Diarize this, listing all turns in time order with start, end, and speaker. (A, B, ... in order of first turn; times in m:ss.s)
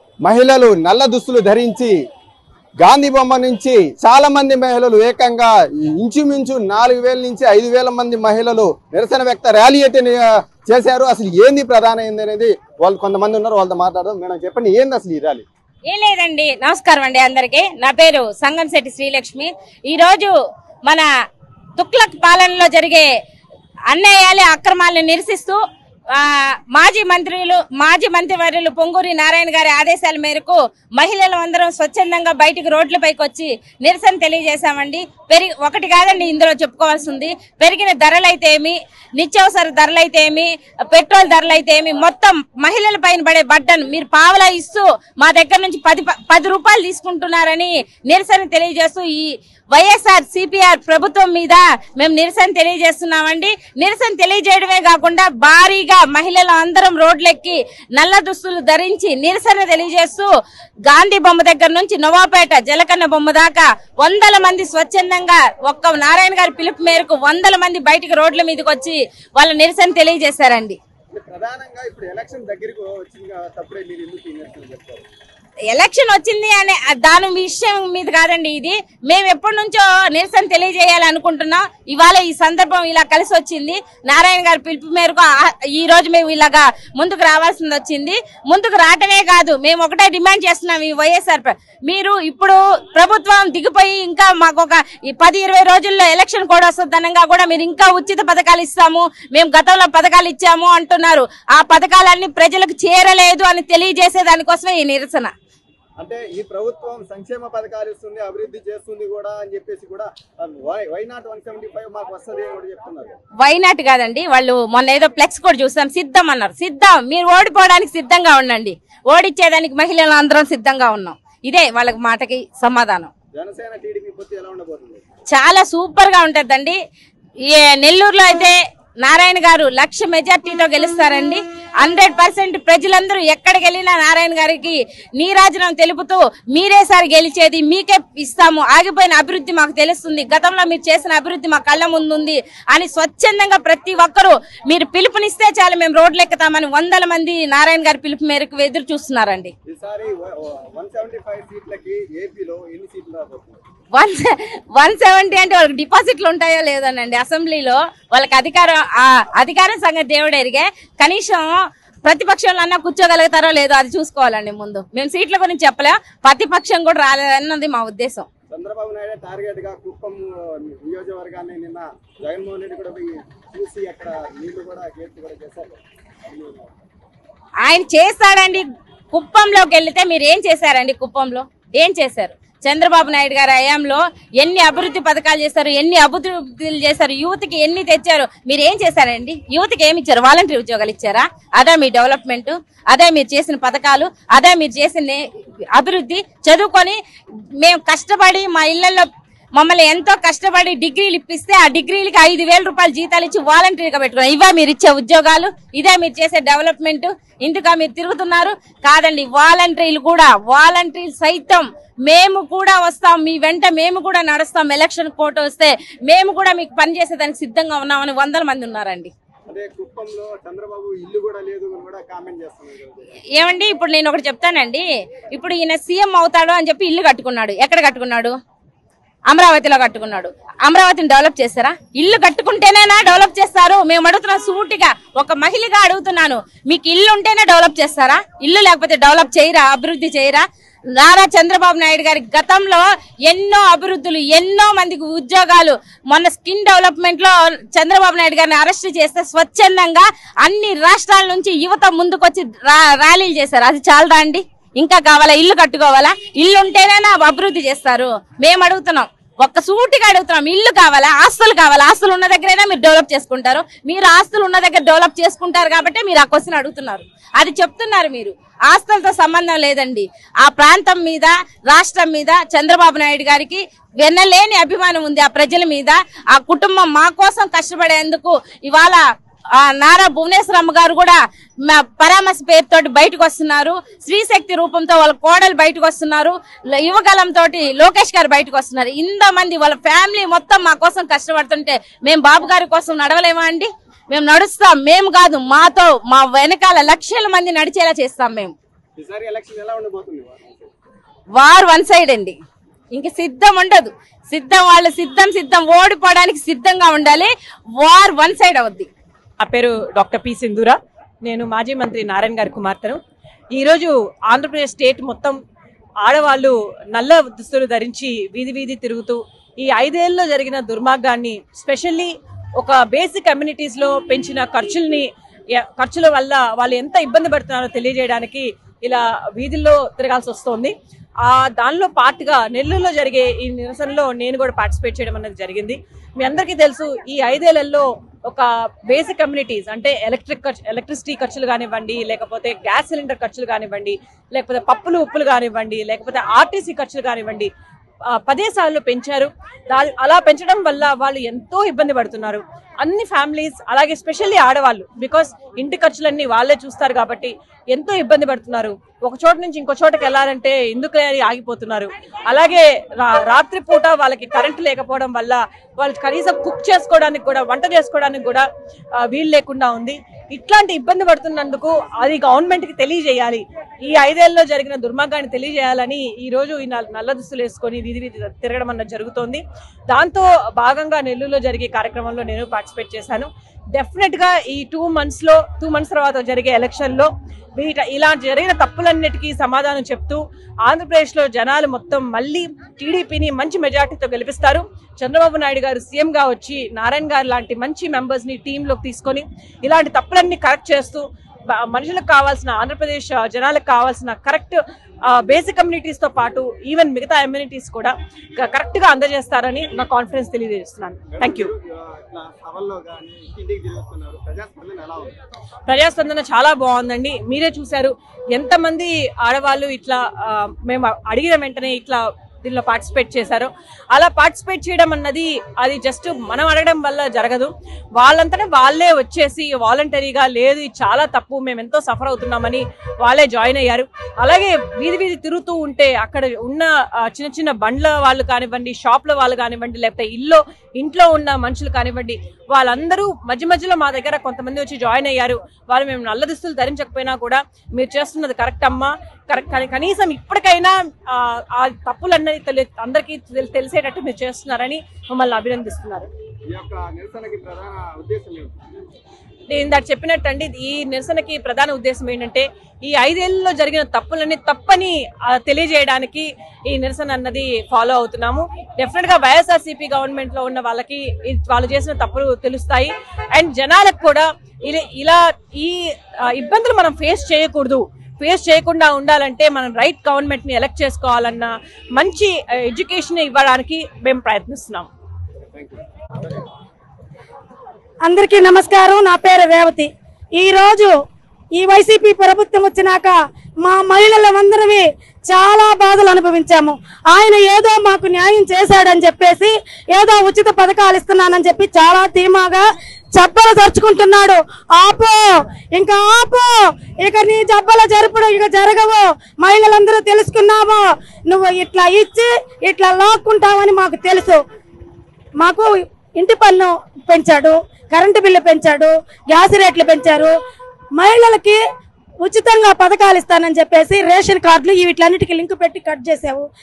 0:00.2-0:02.0 A
0:02.8-0:15.4 A
0:15.8-0:20.3 B
0:21.8-0:23.1 B
0:23.9-0:25.6 B
0:26.1-1:00.3 B
1:00.9-1:10.8 B
1:11.1-1:15.0 A
1:15.7-1:45.3 B
1:46.0-1:53.1 A
1:53.4-2:03.1 B
2:03.4-2:05.0 A
2:05.3-2:06.8 B
2:07.5-2:29.5 B
2:29.7-2:33.6 A
2:33.9-2:41.5 B
2:42.0-2:48.3 B
2:48.5-2:56.7 A
2:57.6-3:15.2 B
3:15.7-3:17.0 B
3:17.6-3:39.1 B
3:39.5-3:43.1 A
3:43.4-3:48.4 B
3:49.3-4:00.4 B
4:01.0-4:39.0 B
4:39.6-4:58.5 B
4:59.0-5:00.7 A
5:01.4-5:02.4 B
5:02.9-5:08.9 B
5:09.4-5:13.0 C
5:13.5-5:15.4 C
5:16.0-5:47.5 C
5:48.2-6:08.5 C
6:09.0-6:51.5 C
6:51.1-6:55.1 A
6:55.7-7:36.1 C
7:36.5-7:38.5 A
7:39.5-8:04.9 C
8:05.5-8:06.4 A
8:08.0-8:10.9 D
8:11.5-8:34.4 D
8:35.4-8:40.3 D
8:41.0-8:41.6 D
8:42.2-8:46.5 D